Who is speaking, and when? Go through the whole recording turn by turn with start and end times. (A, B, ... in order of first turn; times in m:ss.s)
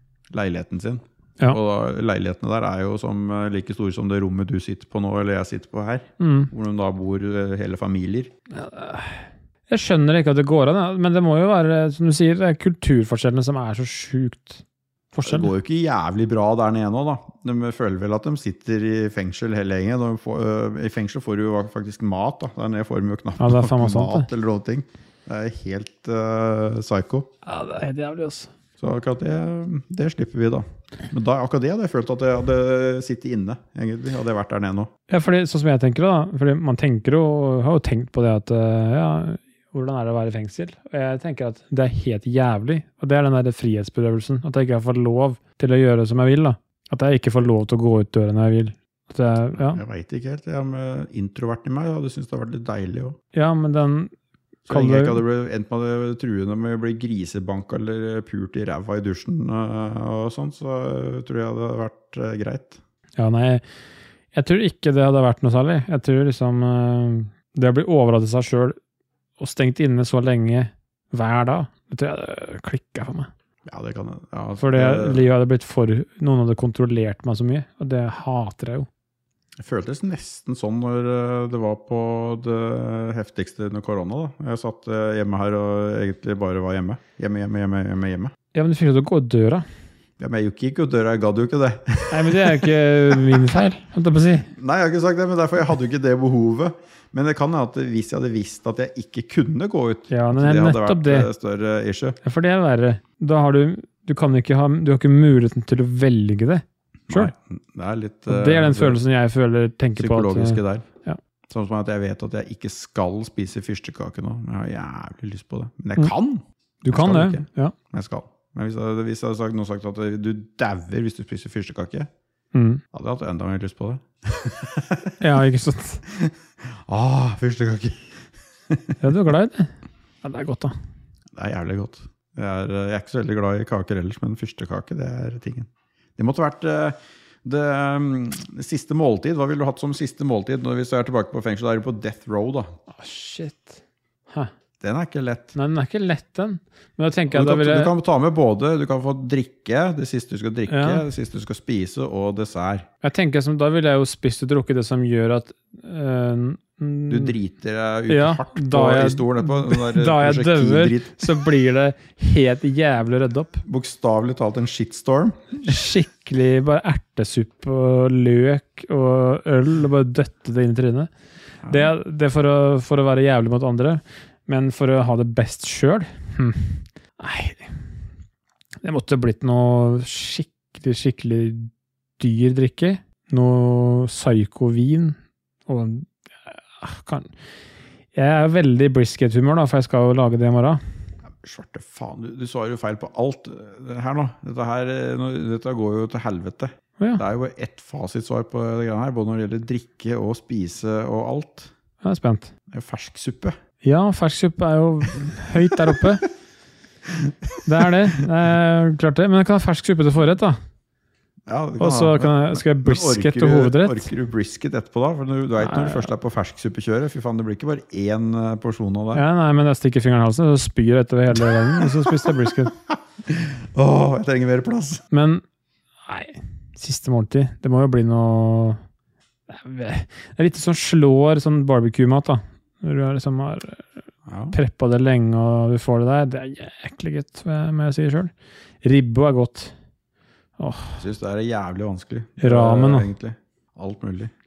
0:00.3-0:08.3 A
0:06.2-0:06.5 B
0:08.5-0:15.5 B
0:15.2-0:27.3 A
0:23.4-0:24.3 B
0:27.4-0:28.5 B
0:28.8-0:34.9 A
0:35.1-0:49.8 B
0:49.6-0:53.2 A
0:53.3-0:54.1 B
0:54.7-0:55.2 B
0:54.7-1:02.8 A
1:03.2-1:03.6 B
1:04.3-1:08.8 B
1:09.4-1:13.3 B
1:13.7-1:15.3 A
1:14.6-1:18.9 B
1:19.6-1:28.3 A
1:28.5-1:29.6 B
1:30.2-1:33.4 A
1:32.1-1:34.5 B
1:34.5-1:42.2 A
1:40.1-1:41.3 B
1:42.2-1:47.3 B
1:47.1-1:49.0 A
1:48.3-1:51.2 B
1:50.0-1:50.8 A
1:51.5-2:02.1 A
1:56.8-1:57.7 B
2:02.5-2:02.8 B
2:02.9-2:05.2 A
2:05.2-2:06.0 B
2:06.1-2:08.1 A
2:08.7-2:09.0 A
2:09.0-2:10.7 B
2:11.3-2:22.7 A
2:22.9-2:24.5 B
2:24.8-2:25.6 A
2:25.6-2:27.9 B
2:27.3-2:32.9 A
2:30.7-2:31.0 B
2:33.0-2:37.3 B
2:37.1-2:41.3 A
2:38.1-2:43.6 B
2:43.7-2:45.6 A
2:45.6-2:51.1 B
2:51.6-2:51.9 A
2:51.7-2:57.8 B
2:58.8-3:07.3 B
3:08.1-3:10.8 B
3:11.4-3:21.7 A
3:22.0-3:22.5 B
3:22.7-3:23.6 A
3:23.8-3:26.3 B
3:27.2-3:27.6 A
3:27.6-3:30.6 B
3:31.5-3:39.2 A
3:31.8-3:34.1 B
3:35.6-3:36.1 B
3:39.1-3:42.7 B
3:41.4-3:45.0 A
3:45.1-3:45.4 B
3:46.0-3:48.8 B
3:49.5-3:53.9 B
3:54.3-3:54.6 A
3:54.5-3:58.3 B
3:58.8-3:59.7 B
4:00.6-4:01.0 B
4:01.0-4:04.3 A
4:02.4-4:03.1 B